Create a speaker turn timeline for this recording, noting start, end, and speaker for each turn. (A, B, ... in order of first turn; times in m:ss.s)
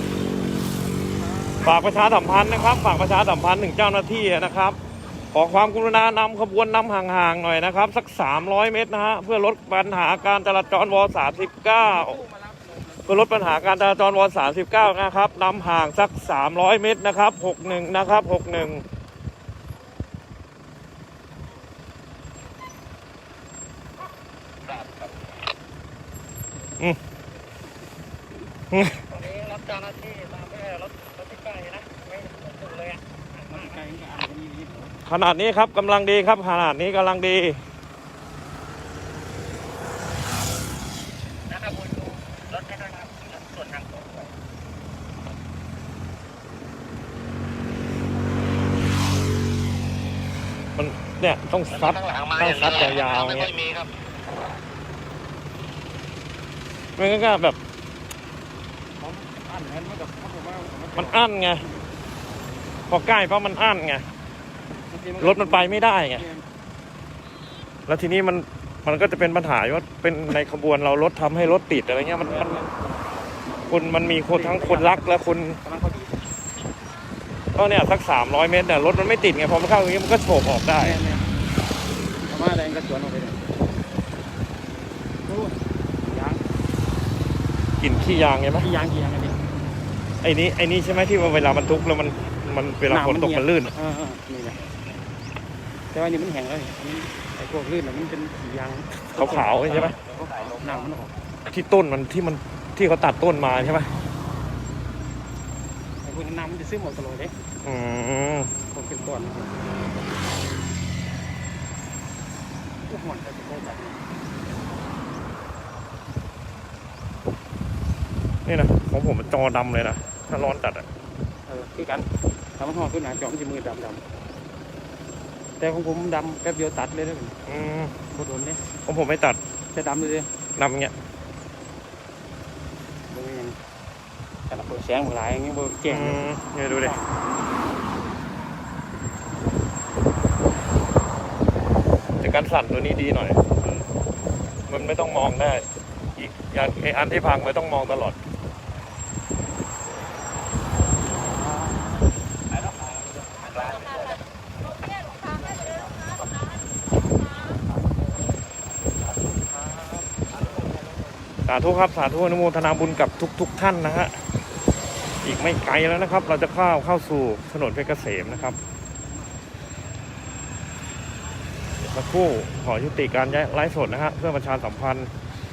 0:01.3-0:01.6 A
0:01.6-0:04.8 B
0:05.3-0:12.2 B
0:11.8-0:13.5 A
0:13.1-0:18.8 B
0:24.6-0:25.1 C
0:28.7-0:29.1 B
0:29.1-0:33.0 C
0:33.4-0:34.9 A
0:35.1-0:37.6 B
0:41.5-0:44.3 C
0:50.8-0:53.6 B
0:52.0-0:52.4 C
0:53.6-0:53.9 C
0:57.0-0:57.6 B
0:59.0-1:01.2 A
1:01.0-1:01.6 B
1:02.9-1:04.0 B
1:04.9-1:06.4 A
1:05.2-1:06.2 B
1:07.9-1:12.7 B
1:12.2-1:12.7 A
1:13.7-1:15.6 B
1:14.3-1:16.1 A
1:17.6-1:21.0 B
1:20.8-1:21.2 A
1:22.3-1:23.4 A
1:25.3-1:26.4 A
1:27.8-1:28.7 B
1:28.6-1:29.4 A
1:30.2-1:33.7 B
1:32.9-1:34.6 A
1:35.9-1:41.1 A
1:39.1-1:40.0 B
1:41.5-1:43.9 B
1:46.0-1:47.3 A
1:47.6-1:48.5 B
1:48.7-1:49.9 A
1:52.9-1:54.0 A
1:58.4-2:00.8 B
2:01.5-2:02.1 A
2:02.6-2:04.0 A
2:05.6-2:07.4 A
2:07.5-2:07.9 B
2:08.1-2:08.6 A
2:08.8-2:09.4 B
2:09.7-2:10.3 A
2:10.6-2:10.9 B
2:13.1-2:13.6 A
2:14.5-2:16.2 A
2:15.9-2:16.9 B
2:16.7-2:17.1 A
2:22.2-2:23.4 B
2:24.7-2:25.6 B
2:26.2-2:28.2 B
2:33.4-2:34.2 C
2:35.2-2:36.1 A
2:39.6-2:40.0 A
2:41.4-2:44.2 B
2:45.2-2:48.6 B
2:51.8-2:55.1 B